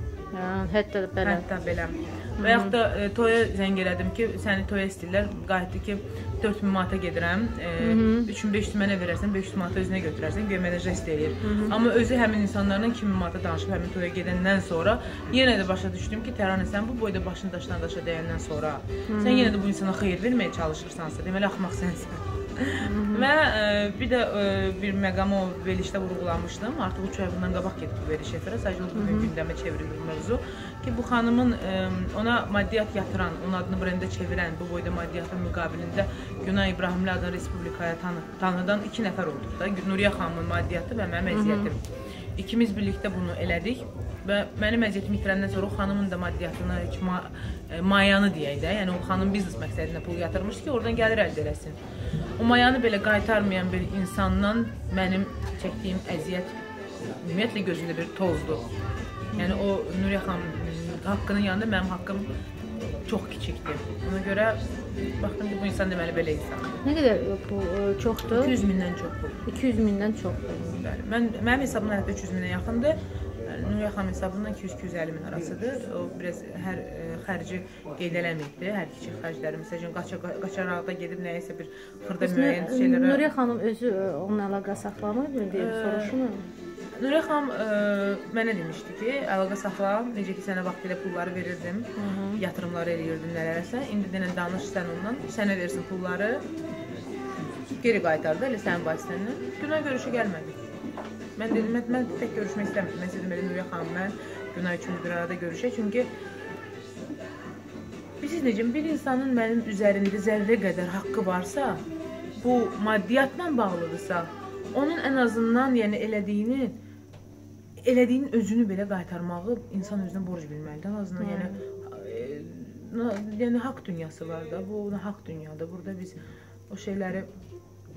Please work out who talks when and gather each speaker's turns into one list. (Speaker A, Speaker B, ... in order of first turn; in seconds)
Speaker A: 0.3-1.4, 2.4-2.7, 7.8-8.3, 11.4-11.8, 19.1-19.6, 22.8-23.3, 28.9-29.3, 41.3-41.7, 59.3-59.6, 66.8-68.5, 69.5-70.8, 82.2-86.4, 92.0-92.4, 121.2-121.6
Speaker B: 1.2-41.8, 42.4-51.8, 52.4-56.5, 57.2-58.6, 59.4-62.3, 63.0-66.8, 68.3-69.4, 70.8-83.2, 85.5-86.1, 87.0-96.4, 97.8-100.6, 101.4-106.1, 108.2-111.8, 112.4-116.8, 117.8-126.2, 126.7-127.3